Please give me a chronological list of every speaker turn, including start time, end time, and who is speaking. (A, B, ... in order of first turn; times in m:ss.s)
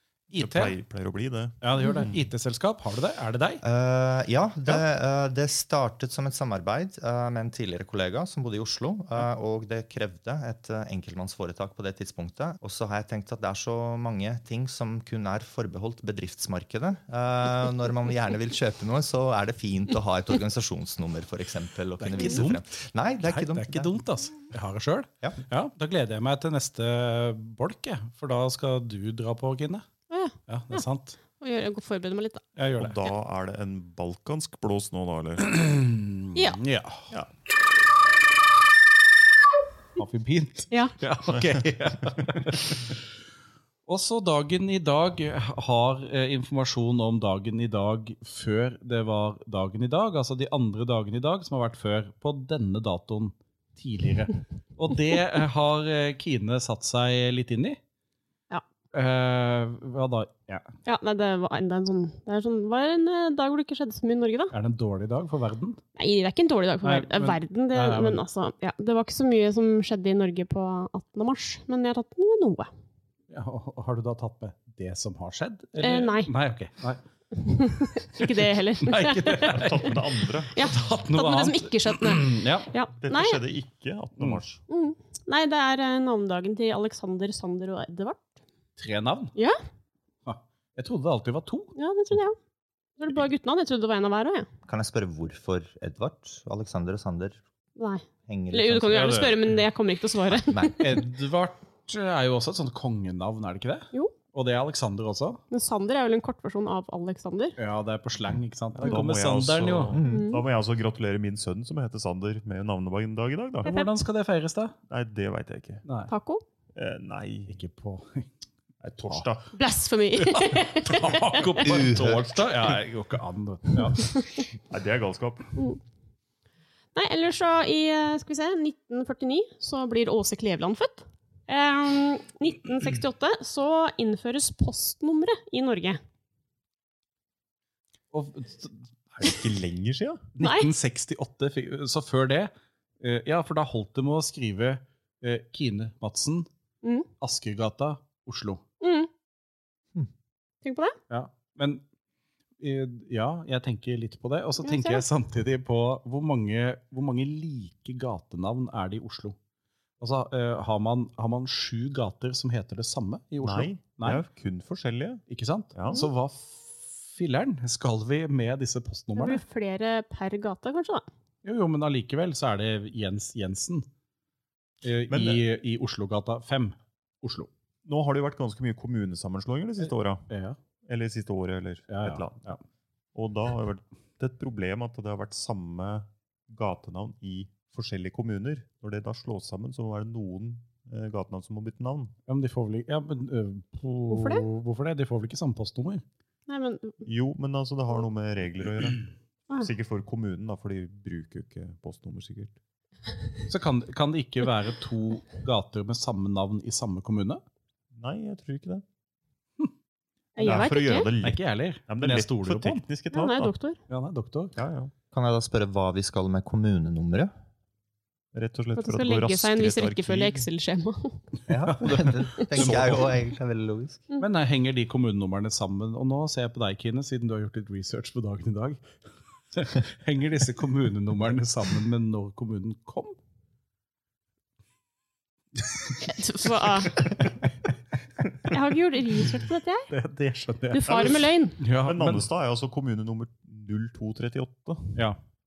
0:00.3-0:00.8 A
0:00.3-0:02.2 B
0:01.6-0:03.6 A
0:03.6-0:24.0 C
0:22.0-0:22.6 A
0:23.2-0:29.9 A
0:30.1-0:30.8 D
0:30.5-0:31.2 A
0:31.4-0:32.4 D
0:32.6-0:33.0 A
0:32.8-0:35.6 B
0:35.4-0:37.1 A
0:40.0-0:43.0 A
0:43.9-0:57.8 A
0:58.9-1:00.7 A
1:00.8-1:04.5 D
1:04.5-1:05.8 A
1:06.0-1:12.7 D
1:06.8-1:08.2 A
1:13.3-1:17.0 A
1:15.8-1:16.3 D
1:17.4-1:19.9 D
1:18.1-1:20.0 A
1:19.4-1:20.7 B
1:20.5-1:23.4 D
1:20.6-1:22.7 A
1:23.0-1:24.6 B
1:24.7-1:28.4 D
1:28.8-1:29.3 A
1:30.2-1:31.7 A
1:31.8-1:32.4 D
1:33.0-1:34.5 D
1:34.6-1:37.4 C
1:37.8-1:41.0 D
1:38.3-1:39.2 C
1:38.9-1:39.5 A
1:40.3-1:40.8 C
1:40.8-1:45.4 A
1:45.5-1:47.6 D
1:47.6-1:50.0 A
1:48.7-1:53.7 B
1:49.9-1:50.3 C
1:50.0-1:50.4 D
1:53.6-1:54.8 A
1:53.6-1:53.9 D
1:54.9-1:55.8 B
1:55.8-1:56.1 A
1:56.1-1:56.4 D
1:56.7-1:57.6 B
1:57.5-1:58.3 A
1:58.8-1:59.5 B
1:59.5-2:01.6 D
2:00.2-2:04.1 A
2:01.6-2:02.4 C
2:04.0-2:04.2 D
2:04.7-2:05.5 B
2:06.9-2:16.0 D
2:18.1-2:19.4 A
2:19.2-2:20.2 B
2:20.4-2:26.5 A
2:20.4-2:20.7 D
2:26.8-2:27.1 D
2:27.2-2:28.6 A
2:28.8-2:29.1 D
2:30.6-2:31.0 D
2:31.1-2:31.8 A
2:32.6-2:39.4 A
2:34.6-2:35.0 D
2:40.0-2:44.2 A
2:43.4-2:45.2 B
2:45.3-2:49.4 A
2:45.7-2:46.1 B
2:49.1-2:51.0 D
2:51.4-2:53.9 A
2:54.8-2:57.5 A
2:55.1-2:55.4 B
2:57.8-3:00.3 B
2:59.8-3:00.6 A
3:00.8-3:02.5 B
3:01.9-3:02.6 A
3:03.1-3:12.1 B
3:12.3-3:16.0 A
3:14.1-3:14.4 D
3:16.5-3:17.0 D
3:17.0-3:22.6 B
3:23.5-3:27.4 A
3:27.9-3:28.8 B
3:30.4-3:31.1 D
3:30.4-3:33.5 B
3:31.2-3:32.8 A
3:33.1-3:33.8 D
3:33.9-3:34.5 A
3:34.6-3:34.9 B
3:35.1-3:37.3 C
3:38.3-3:40.4 B
3:38.8-3:41.2 D
3:41.5-3:44.1 C
3:41.7-3:43.1 A
3:44.2-3:48.9 A
3:49.5-3:53.2 A
3:56.0-3:57.1 D
3:58.5-3:59.9 D
3:59.9-4:00.9 A
4:00.7-4:01.6 D
4:00.9-4:05.0 B
4:01.6-4:02.3 A